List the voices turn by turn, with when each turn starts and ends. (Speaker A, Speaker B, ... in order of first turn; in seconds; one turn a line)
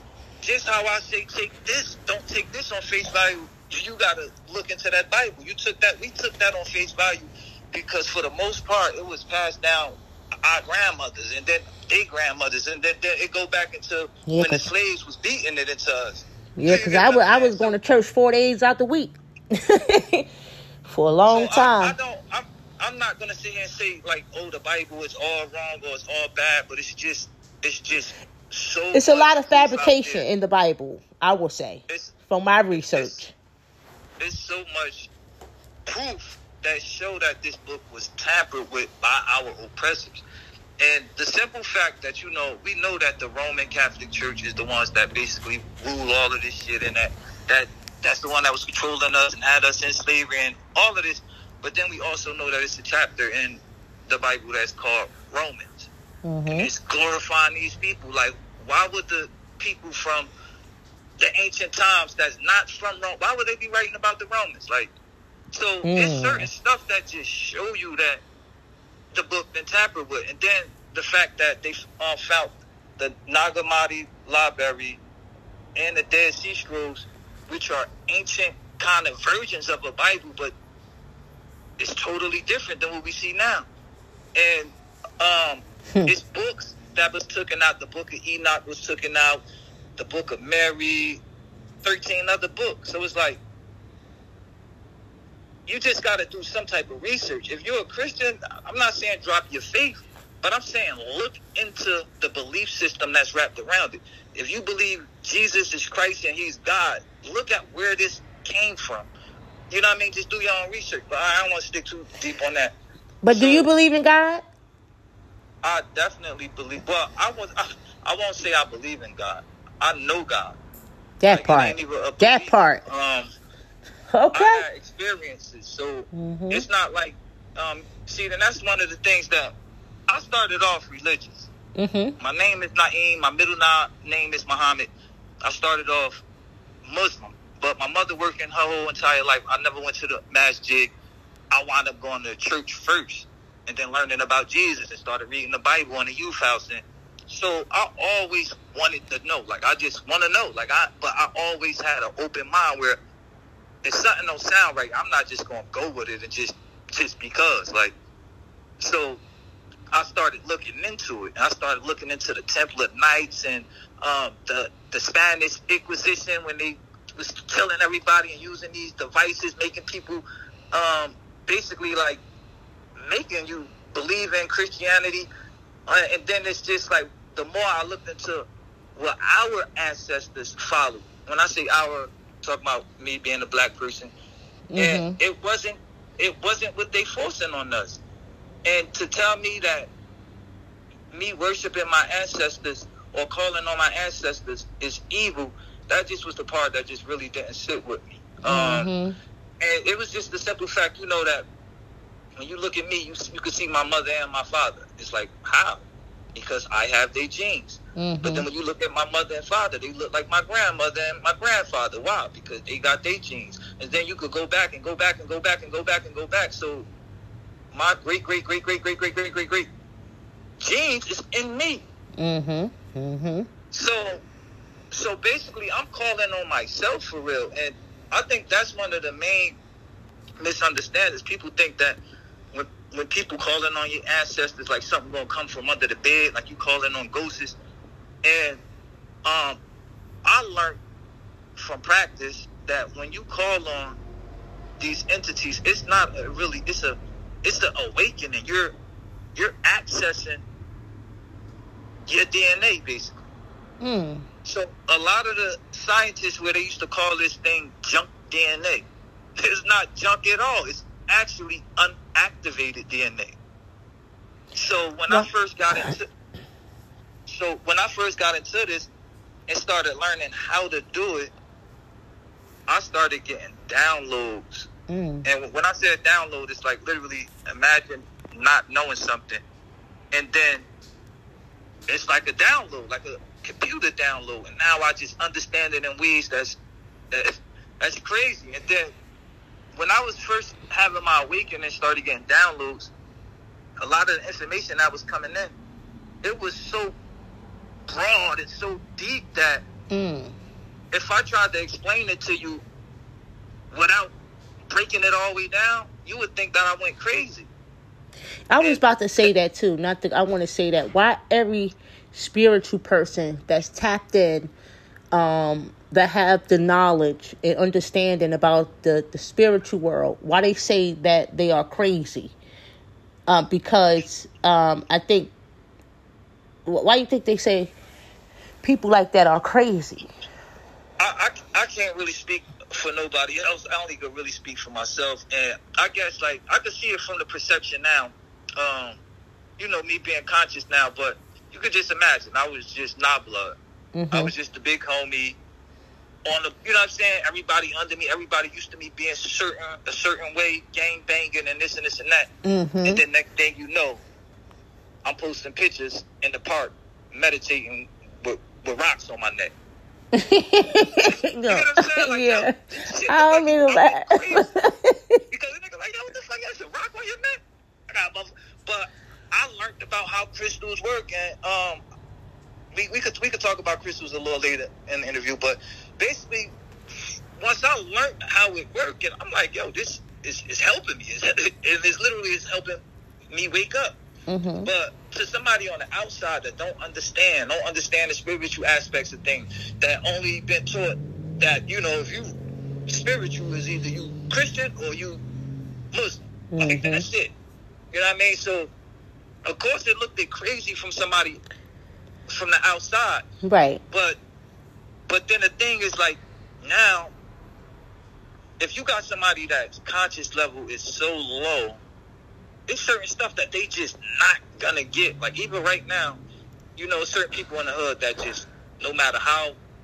Speaker A: 0.4-17.7
Speaker B: 14.3-14.7
Speaker B: 16.6-20.2
Speaker B: 20.9-21.9
Speaker A: 21.3-30.2
Speaker B: 28.9-33.3
Speaker A: 31.9-32.1
Speaker A: 32.7-33.2
Speaker A: 34.2-35.1
Speaker A: 35.9-40.2
Speaker A: 40.8-55.9
Speaker B: 56.2-56.7
Speaker A: 56.5-60.3
Speaker A: 61.2-64.9
Speaker A: 65.5-68.2
Speaker B: 65.8-66.5
Speaker A: 69.1-75.0
Speaker A: 75.8-80.5
Speaker A: 81.8-83.7
Speaker A: 84.3-89.4
Speaker A: 90.0-91.2
Speaker A: 91.8-93.4
Speaker A: 95.7-109.1
Speaker A: 109.7-112.8
Speaker B: 113.2-114.4
Speaker A: 113.3-113.7
Speaker A: 115.6-120.6
Speaker B: 121.2-122.8
Speaker A: 121.3-123.3
Speaker B: 124.1-124.6
Speaker A: 124.3-129.5
Speaker B: 126.1-126.6
Speaker A: 130.1-131.5
Speaker B: 131.8-132.1
Speaker A: 132.2-134.9
Speaker A: 135.4-136.2
Speaker A: 136.8-140.9
Speaker A: 141.5-153.0
Speaker A: 153.8-157.9
Speaker A: 158.8-159.2
Speaker A: 159.9-172.2
Speaker A: 173.1-175.3
Speaker A: 175.9-184.1
Speaker B: 184.7-185.2
Speaker A: 184.8-188.0
Speaker A: 188.6-189.9
Speaker A: 191.1-198.9
Speaker B: 198.4-199.1
Speaker A: 199.6-201.5
Speaker A: 202.4-205.8
Speaker A: 206.3-216.9
Speaker B: 208.0-208.4
Speaker A: 217.7-219.7
Speaker A: 220.6-221.8
Speaker B: 222.2-223.5
Speaker A: 223.7-224.2
Speaker A: 224.9-229.6
Speaker A: 230.4-232.0
Speaker A: 232.5-237.6
Speaker A: 238.2-238.6
Speaker A: 239.2-239.6
Speaker A: 240.2-240.8
Speaker A: 241.6-244.0
Speaker A: 244.8-248.7
Speaker A: 249.3-250.4
Speaker A: 252.1-253.1
Speaker B: 253.8-254.2
Speaker A: 254.4-258.9
Speaker A: 259.4-263.4
Speaker A: 264.5-266.1
Speaker B: 265.1-265.9
Speaker A: 267.3-268.9
Speaker A: 269.5-271.3
Speaker A: 272.7-274.7
Speaker B: 274.9-275.3
Speaker A: 275.2-279.4
Speaker A: 280.1-280.6
Speaker A: 281.9-286.6
Speaker A: 287.1-288.9
Speaker A: 289.7-292.9
Speaker A: 293.8-295.5
Speaker A: 296.2-296.9
Speaker A: 297.9-299.6
Speaker B: 299.9-300.3
Speaker A: 300.9-302.6
Speaker A: 303.7-304.1
Speaker A: 304.7-307.5
Speaker B: 308.5-314.5
Speaker A: 308.6-309.3
Speaker B: 315.1-322.3
Speaker B: 323.3-325.3
Speaker B: 326.6-327.7
Speaker B: 328.6-330.1
Speaker A: 331.0-339.0
Speaker A: 339.6-343.6
Speaker B: 343.9-344.3
Speaker A: 344.1-345.4
Speaker A: 346.2-352.3
Speaker B: 352.4-353.0
Speaker A: 352.8-354.0
Speaker A: 355.0-359.5
Speaker B: 360.1-362.5
Speaker A: 361.4-364.5
Speaker B: 363.1-365.2
Speaker A: 365.3-371.8
Speaker A: 372.7-382.8
Speaker A: 383.3-384.0
Speaker B: 384.3-384.7
Speaker A: 384.6-392.3
Speaker A: 392.9-395.2
Speaker A: 395.9-397.3
Speaker B: 396.5-397.1
Speaker A: 397.9-398.7
Speaker A: 399.4-401.4
Speaker A: 402.3-403.2
Speaker B: 403.4-403.8
Speaker A: 403.9-404.2
Speaker A: 405.1-407.1
Speaker A: 408.6-411.8
Speaker A: 412.7-416.2
Speaker A: 416.8-419.6